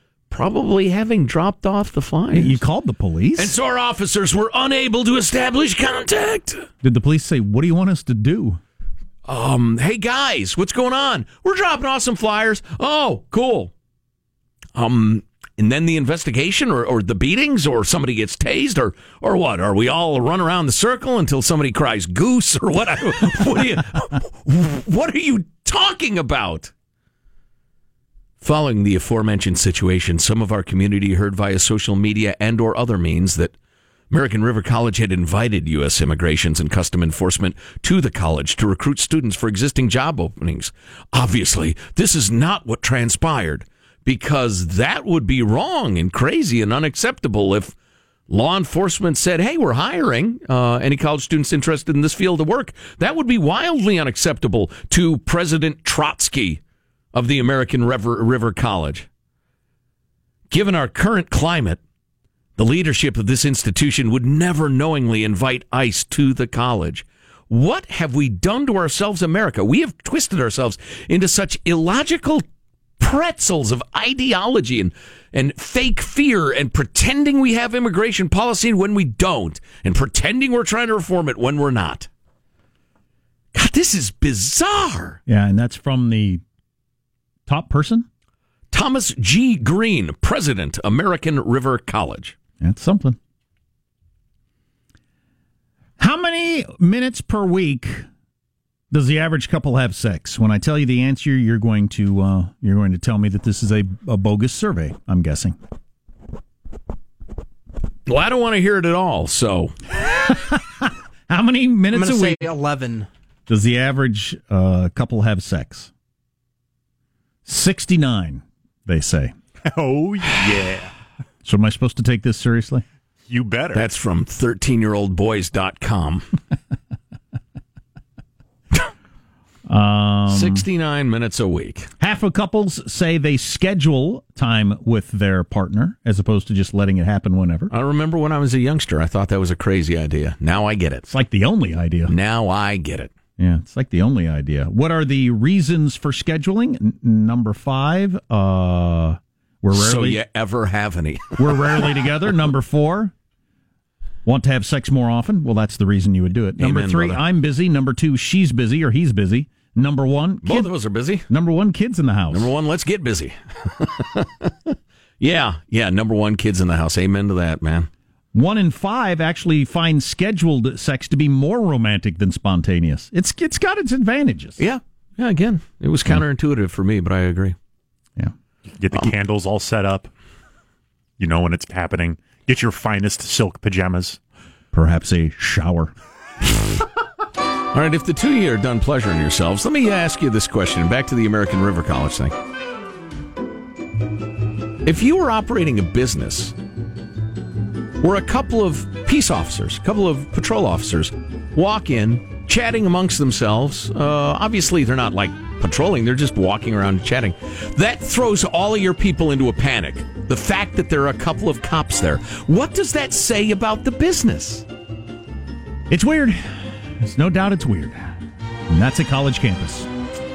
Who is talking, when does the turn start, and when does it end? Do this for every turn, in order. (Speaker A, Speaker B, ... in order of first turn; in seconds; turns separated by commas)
Speaker A: 0.3-2.6, Speaker B: 2.3-3.5, Speaker A: 3.4-6.7, Speaker B: 6.8-8.6, Speaker A: 9.3-13.7, Speaker A: 14.8-26.7, Speaker A: 28.4-33.5, Speaker A: 34.1-47.7, Speaker A: 48.3-56.6, Speaker A: 57.1-59.1, Speaker A: 60.5-61.8, Speaker A: 62.6-72.4, Speaker A: 73.0-82.1, Speaker A: 83.5-85.2, Speaker B: 85.3-86.4, Speaker B: 87.5-88.1, Speaker A: 88.7-92.4, Speaker B: 92.6-93.2, Speaker B: 96.0-98.1, Speaker B: 98.9-105.6, Speaker A: 108.0-109.7, Speaker B: 110.0-112.5, Speaker B: 113.5-115.9, Speaker B: 117.5-119.3, Speaker C: 119.6-120.9, Speaker B: 121.4-122.8, Speaker C: 123.2-123.9, Speaker A: 123.7-126.3, Speaker B: 129.7-130.6, Speaker A: 130.3-131.9, Speaker B: 132.0-137.7, Speaker A: 137.7-141.1, Speaker B: 141.1-142.1, Speaker A: 142.1-143.1, Speaker B: 143.4-150.2, Speaker A: 149.7-151.9, Speaker B: 151.4-153.1, Speaker B: 154.2-160.7, Speaker A: 156.6-157.2, Speaker A: 160.4-161.3, Speaker B: 161.3-162.5, Speaker A: 162.3-167.9, Speaker B: 168.3-174.6, Speaker A: 174.6-177.6, Speaker C: 178.8-180.1, Speaker C: 181.2-184.2, Speaker B: 184.7-185.9, Speaker A: 186.5-186.8, Speaker A: 187.7-192.3, Speaker A: 194.8-196.5, Speaker A: 198.0-214.6, Speaker B: 215.9-218.1, Speaker B: 218.7-219.9